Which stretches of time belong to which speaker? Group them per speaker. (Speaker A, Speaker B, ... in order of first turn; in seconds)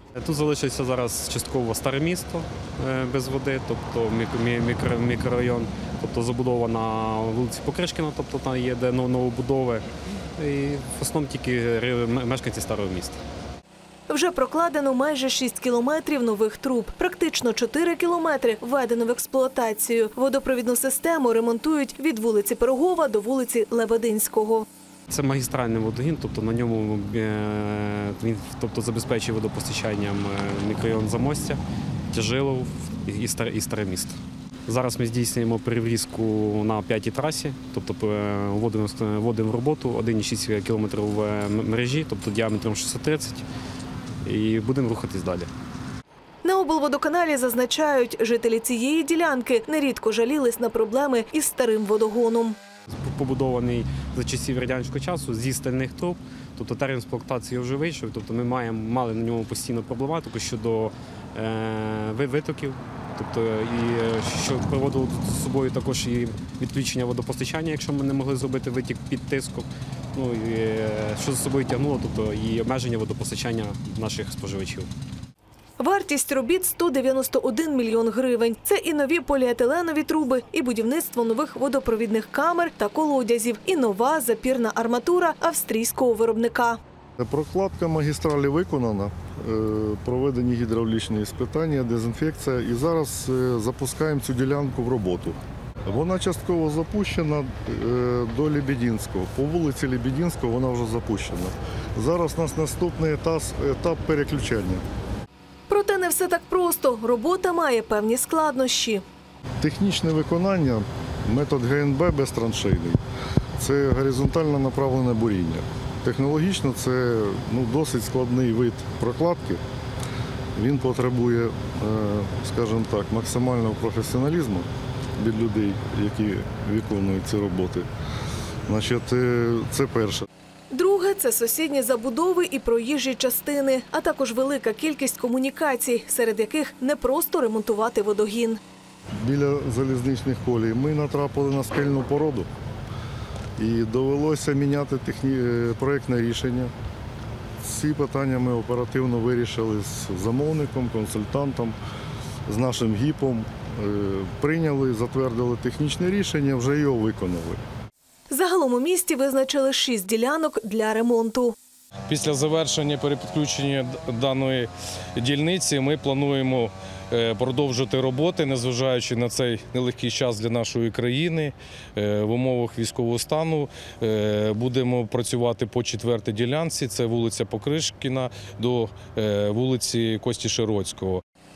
Speaker A: 0.2-13.2, 25.1-31.6, 32.1-34.1, 34.7-43.5, 44.2-45.5, 53.0-74.9
Speaker B: 14.1-24.7, 46.4-52.6, 75.8-86.8, 105.7-109.0, 130.7-138.6, 158.3-161.6
Speaker C: 87.2-104.8, 109.6-113.0, 113.6-119.6, 120.6-127.9, 128.7-130.3, 139.2-142.5, 143.6-146.7, 147.6-151.8, 152.5-157.6
Speaker D: 162.1-181.2